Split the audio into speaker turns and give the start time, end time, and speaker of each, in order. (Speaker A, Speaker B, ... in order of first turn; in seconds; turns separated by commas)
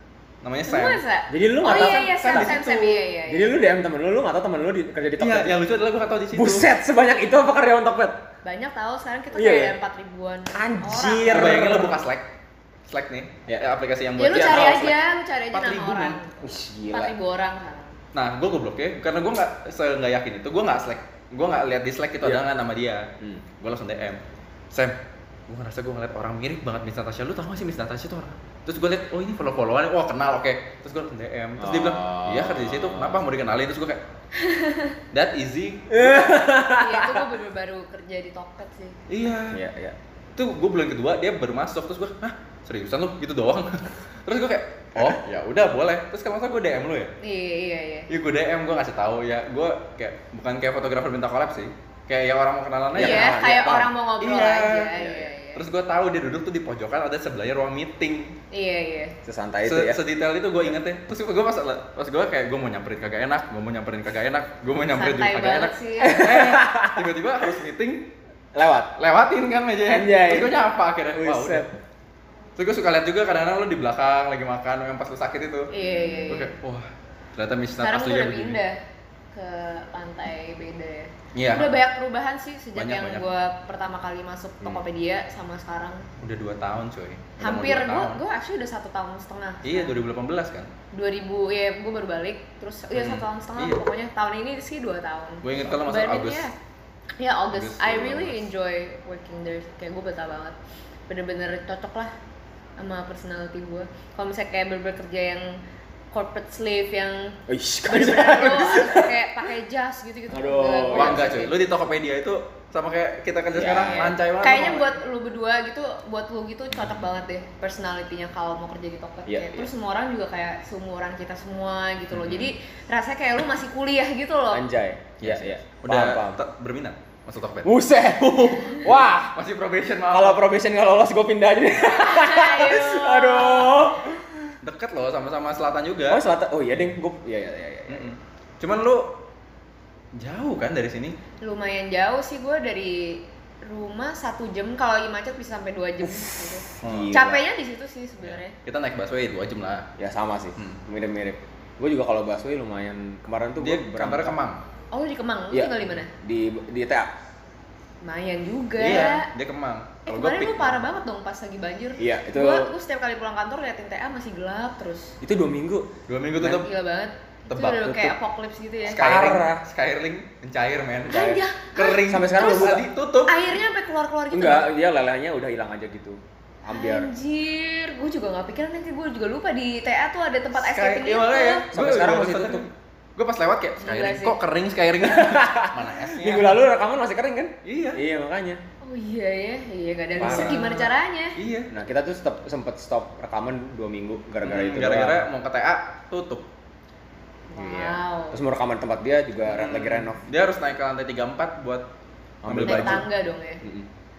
Speaker A: 0.4-1.0, Speaker B: 0.7-3.5, Speaker C: 1.3-5.7, Speaker A: 1.6-2.8, Speaker A: 5.2-6.7, Speaker C: 6.3-8.2, Speaker B: 8.4-11.7, Speaker C: 9.3-9.8, Speaker C: 10.5-12.0, Speaker A: 11.3-12.3, Speaker A: 12.9-15.0, Speaker B: 14.2-17.9, Speaker C: 14.2-14.9, Speaker A: 15.5-16.2, Speaker C: 16.4-17.1, Speaker A: 18.1-24.2, Speaker A: 25.5-34.0, Speaker C: 31.6-33.2, Speaker B: 34.4-34.9, Speaker A: 35.1-36.6, Speaker C: 35.9-37.3, Speaker B: 36.6-39.0, Speaker A: 39.1-39.6, Speaker C: 39.5-40.0, Speaker A: 40.4-47.1, Speaker B: 47.2-48.1, Speaker A: 48.1-53.3, Speaker C: 52.9-53.9, Speaker B: 53.0-55.6, Speaker A: 54.2-58.4, Speaker B: 58.5-59.1, Speaker C: 59.2-60.0, Speaker A: 59.6-68.1, Speaker B: 64.9-66.3, Speaker C: 66.0-67.0, Speaker C: 68.5-68.9, Speaker A: 69.0-71.7, Speaker C: 69.9-71.7, Speaker A: 72.6-75.7, Speaker B: 75.7-76.5, Speaker C: 75.8-76.3, Speaker A: 76.3-78.6, Speaker B: 77.8-78.8, Speaker B: 79.3-86.0, Speaker A: 81.3-81.8, Speaker A: 82.7-83.2, Speaker A: 86.2-88.2, Speaker B: 87.4-89.9, Speaker A: 89.6-90.7, Speaker B: 90.9-96.5, Speaker A: 92.9-93.8, Speaker A: 95.4-96.5, Speaker B: 97.2-100.5, Speaker A: 97.5-98.4, Speaker B: 101.1-102.1, Speaker B: 102.8-105.6, Speaker B: 106.1-111.5, Speaker C: 107.5-109.2, Speaker C: 110.3-111.4, Speaker A: 110.9-115.0, Speaker C: 113.5-114.2, Speaker B: 114.4-124.7, Speaker A: 116.7-117.0, Speaker C: 119.2-119.7, Speaker A: 122.1-122.5, Speaker C: 124.5-126.4, Speaker A: 125.2-130.4, Speaker C: 127.6-129.4, Speaker C: 130.1-134.5, Speaker B: 131.9-134.0, Speaker A: 134.6-136.2, Speaker C: 136.1-138.1, Speaker A: 137.9-139.2, Speaker A: 140.1-141.2, Speaker B: 141.4-148.5, Speaker C: 146.7-147.4, Speaker A: 146.8-147.2, Speaker A: 148.2-149.9, Speaker C: 150.0-154.3, Speaker A: 153.6-154.6, Speaker B: 154.9-156.1, Speaker C: 155.5-157.1, Speaker B: 158.0-159.3, Speaker A: 158.8-160.8, Speaker B: 160.0-165.2, Speaker C: 162.0-162.7, Speaker C: 165.2-165.9, Speaker A: 166.1-166.7, Speaker B: 166.4-169.0, Speaker A: 167.5-168.1, Speaker A: 168.8-173.5, Speaker C: 168.9-169.6, Speaker B: 171.1-174.7, Speaker C: 172.0-172.9, Speaker C: 174.3-177.1, Speaker B: 176.7-181.7, Speaker A: 180.6-186.6, Speaker C: 181.7-182.7, Speaker B: 183.8-184.4, Speaker C: 185.1-188.6, Speaker A: 187.6-188.0, Speaker B: 188.8-191.3, Speaker C: 190.2-190.9, Speaker A: 190.2-190.6, Speaker A: 191.3-191.7, Speaker C: 191.7-195.2, Speaker A: 194.4-196.5, Speaker B: 197.5-198.4, Speaker C: 197.6-200.2, Speaker A: 199.5-201.8, Speaker C: 202.4-203.1, Speaker A: 202.4-203.0, Speaker B: 202.6-203.6, Speaker C: 203.6-203.9